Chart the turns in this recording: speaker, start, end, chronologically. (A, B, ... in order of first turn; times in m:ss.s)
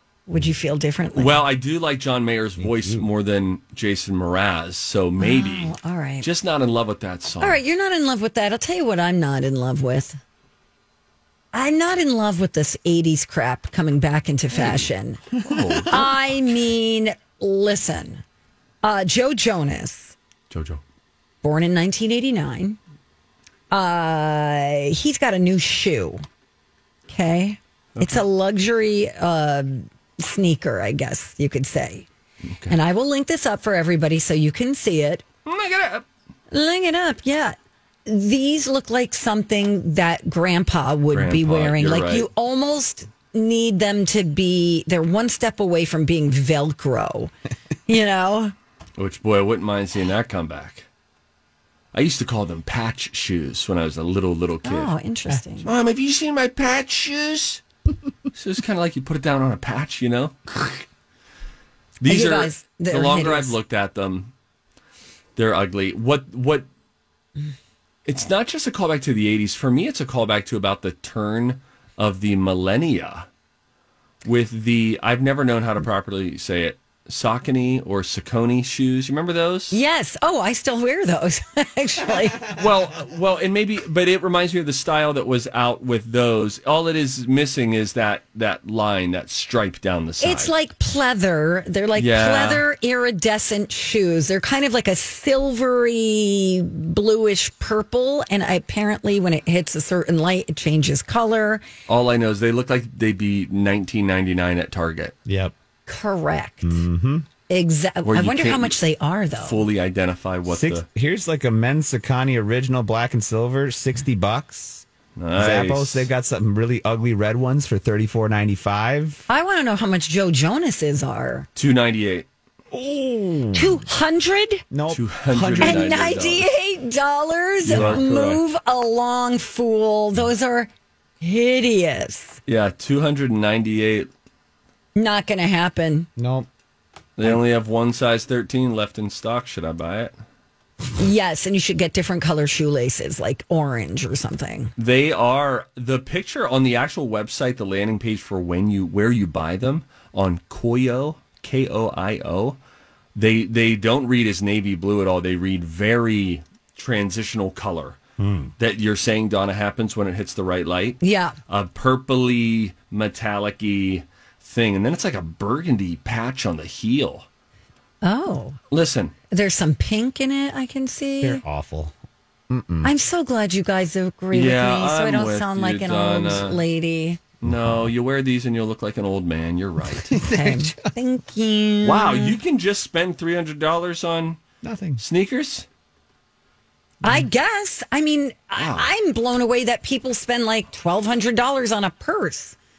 0:00.3-0:01.4 A
0:01.2-0:07.6 B
0:02.6-0:03.1 C
0:05.2-0:06.3 A
0:07.4-0:10.2 A
0:11.5-0:15.2 A
0:14.5-0:14.8 B
0:15.4-0:16.1 B
0:15.4-0:15.9 C
0:15.9-0:18.2 A
0:18.8-0:20.2 A
0:20.5-0:20.8 B
0:21.4-0:22.8 A
0:23.7-0:26.2 A
0:27.1-0:32.1 A
0:32.5-0:32.8 B
0:32.7-0:35.2 A
0:35.4-0:36.0 B
0:36.5-0:47.3 A
0:41.1-0:42.3 B
0:47.9-0:48.5 A
0:49.0-0:50.9 B
0:51.9-0:54.9 B
0:54.6-0:55.7 A
0:55.6-0:57.6 B
0:58.3-1:00.8 B
1:02.0-1:04.3 B
1:02.0-1:03.5 A
1:05.4-1:06.7 B
1:08.1-1:13.3 B
1:14.2-1:19.8 B
1:19.7-1:22.4 A
1:22.5-1:30.5 B
1:30.2-1:41.6 A
1:32.0-1:32.6 B
1:41.9-1:45.2 B
1:45.3-1:45.5 C
1:45.9-1:46.8 A
1:46.6-1:47.3 C
1:47.5-1:49.7 A
1:48.0-1:48.8 B
1:49.4-1:50.8 B
1:50.5-1:59.2 C
1:55.2-1:56.1 B
1:59.3-2:01.5 A
2:01.6-2:02.3 B
2:02.7-2:03.8 C
2:03.5-2:04.6 A
2:04.7-2:05.9 C
2:04.9-2:06.5 B
2:05.6-2:10.7 A
2:07.7-2:08.4 B
2:07.7-2:08.0 C
2:11.2-2:12.4 A
2:12.5-2:14.1 B
2:15.0-2:16.1 A
2:16.2-2:16.5 C
2:17.2-2:20.1 B
2:21.0-2:24.7 A
2:24.8-2:32.6 B
2:33.2-2:38.0 B
2:38.2-2:38.5 C
2:38.6-2:47.3 B
2:41.0-2:41.4 A
2:48.0-2:48.6 A
2:48.7-2:49.1 B
2:49.3-2:51.4 A
2:51.2-2:51.9 C
2:52.5-2:52.9 C
2:52.8-2:57.2 A
2:54.3-2:56.6 B
2:57.4-2:57.9 C
2:57.4-3:00.2 B
2:59.9-3:00.9 C
3:00.2-3:02.4 A
3:01.8-3:04.4 B
3:04.6-3:05.0 C
3:05.0-3:05.7 B
3:07.0-3:12.6 A
3:08.6-3:08.9 B